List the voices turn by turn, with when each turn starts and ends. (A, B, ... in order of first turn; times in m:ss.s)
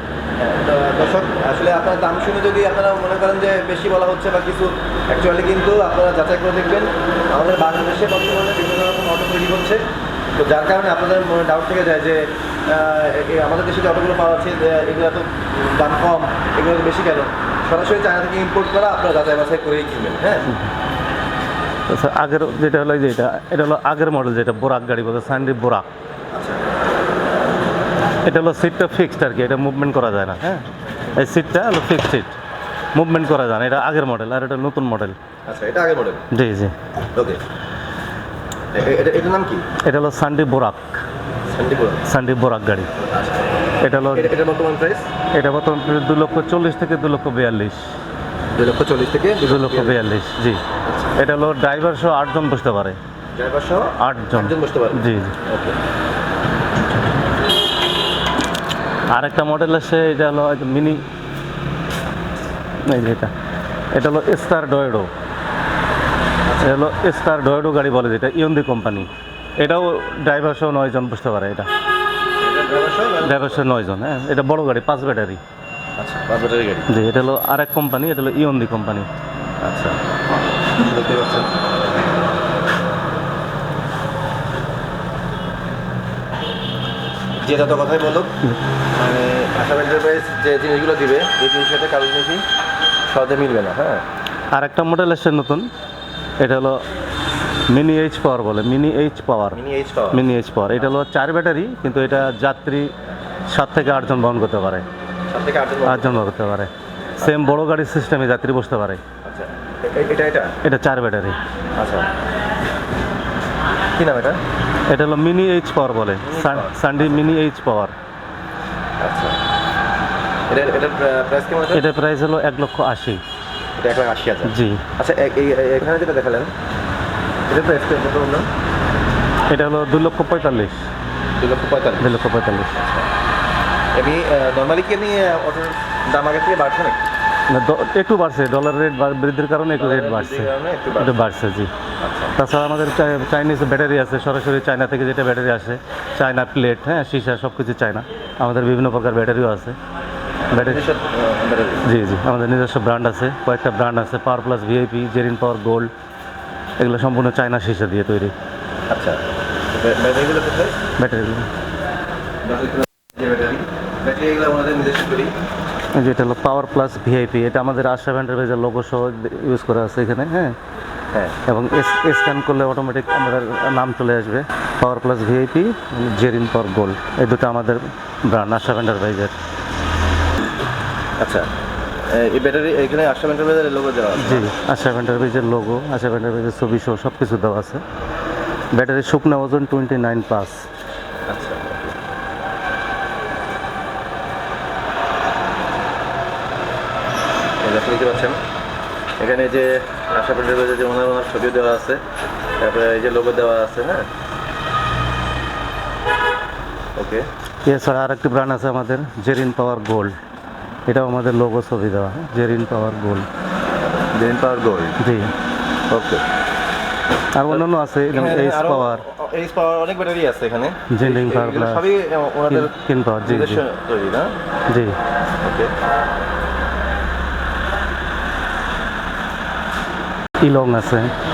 0:00.4-0:09.8 A
0:10.4-0:20.5 A
0:21.9-0:25.9 B
0:26.3-0:26.6 A
0:28.2-0:30.6 B
0:31.2-0:32.3 B
0:32.9-0:35.2 B
0:35.5-0:36.2 A
0:36.3-0:36.7 B
0:37.1-0:37.4 A
0:38.7-0:39.7 A
0:39.8-0:41.0 B
0:41.5-0:42.0 A
0:42.1-0:42.9 B
0:42.9-0:43.5 A
0:43.8-0:44.3 B
0:44.1-0:45.1 A
0:45.3-0:47.8 B
0:48.6-0:50.0 A
0:49.4-0:50.6 B
0:51.2-0:53.0 B
0:53.4-0:55.8 A
0:54.0-0:55.4 B
0:59.1-1:01.0 B
1:02.8-1:03.3 B
1:03.9-1:05.1 B
1:06.6-1:11.7 B
1:12.4-1:13.6 A
1:13.2-1:15.4 B
1:16.0-1:17.0 A
1:16.9-1:19.1 B
1:19.6-1:20.0 A
1:20.8-1:21.7 A
1:27.4-1:28.3 A
1:28.9-1:32.4 A
1:33.1-1:34.0 A
1:34.5-1:35.7 B
1:36.4-1:36.8 B
1:37.7-1:39.6 B
1:39.5-1:40.3 A
1:40.1-1:42.9 B
1:43.5-1:44.8 B
1:45.3-1:46.3 A
1:45.8-1:49.0 B
1:49.2-1:50.5 A
1:50.6-1:51.4 B
1:51.8-1:52.1 A
1:53.9-1:54.4 A
1:54.9-1:57.9 B
1:56.2-1:57.2 A
1:59.0-1:59.4 A
2:00.5-2:01.9 A
2:01.7-2:03.2 B
2:03.8-2:06.5 A
2:04.4-2:04.8 B
2:07.5-2:08.5 A
2:09.5-2:10.8 B
2:11.4-2:12.1 A
2:12.0-2:12.8 B
2:12.7-2:13.1 A
2:13.9-2:17.0 A
2:17.5-2:21.7 B
2:19.8-2:21.2 A
2:22.0-2:22.4 A
2:22.4-2:29.8 B
2:30.5-2:31.9 A
2:30.5-2:30.8 B
2:31.8-2:35.9 B
2:36.8-2:38.3 B
2:38.9-2:40.8 A
2:41.0-2:41.5 B
2:42.4-2:45.3 A
2:45.9-2:50.6 B
2:51.1-2:51.4 A
2:51.5-2:59.3 B
3:01.2-3:01.5 A
3:02.1-3:04.5 A
3:04.2-3:07.8 B
3:08.7-3:10.6 B
3:11.3-3:12.0 A
3:17.6-3:18.4 A
3:19.2-3:22.0 A
3:22.6-3:24.0 A
3:27.0-3:27.3 A
3:27.6-3:30.2 B
3:30.9-3:33.3 B
3:34.1-3:35.0 A
3:35.0-3:35.3 B
3:35.9-3:36.2 A
3:37.4-3:39.0 B
3:37.5-3:42.7 A
3:40.9-3:41.9 B
3:42.5-3:43.6 B
3:43.2-3:44.3 A
3:44.7-3:45.0 B
3:45.4-3:45.7 A
3:50.4-3:51.1 B